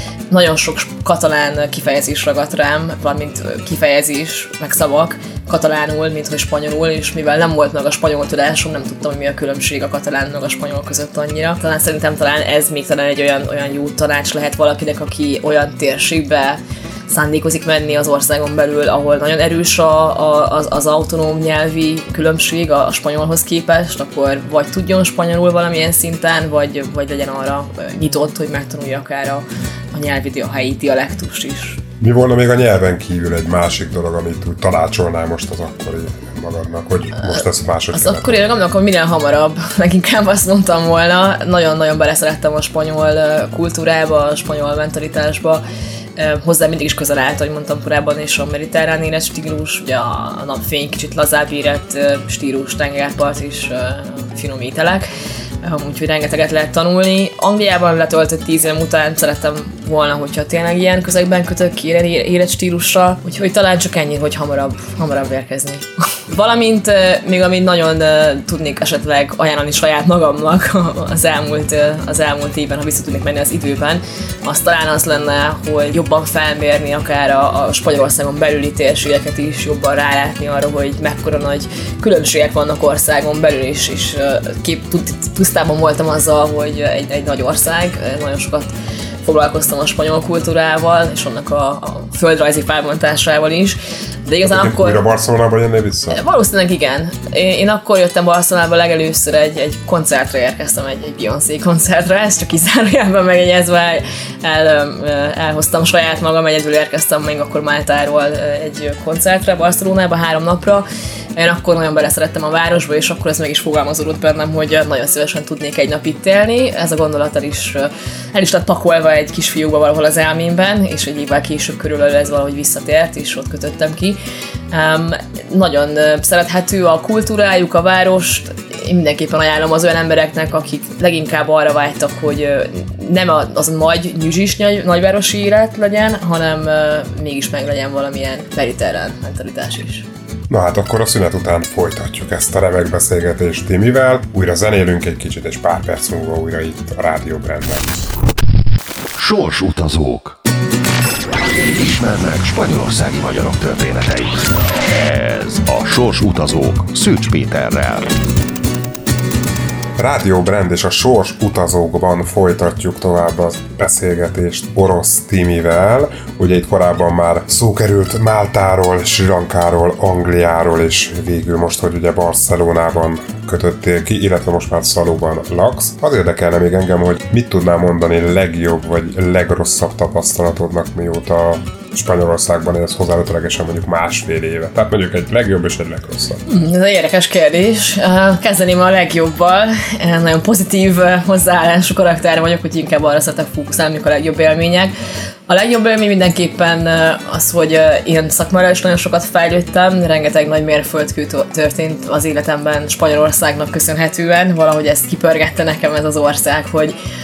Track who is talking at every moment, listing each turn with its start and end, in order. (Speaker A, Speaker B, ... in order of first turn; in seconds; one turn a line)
Speaker A: 0.3-31.8
Speaker B: 32.0-38.4
Speaker A: 37.2-45.6
Speaker A: 46.2-55.1
Speaker A: 55.6-88.7
Speaker A: 89.2-95.0
Speaker B: 94.4-96.2
Speaker A: 96.1-124.2
Speaker A: 124.7-140.1
Speaker B: 140.5-147.9
Speaker C: 149.2-150.4
Speaker C: 151.7-158.1
Speaker B: 160.0-186.4
Speaker A: 186.5-194.9
Speaker A: 195.5-206.9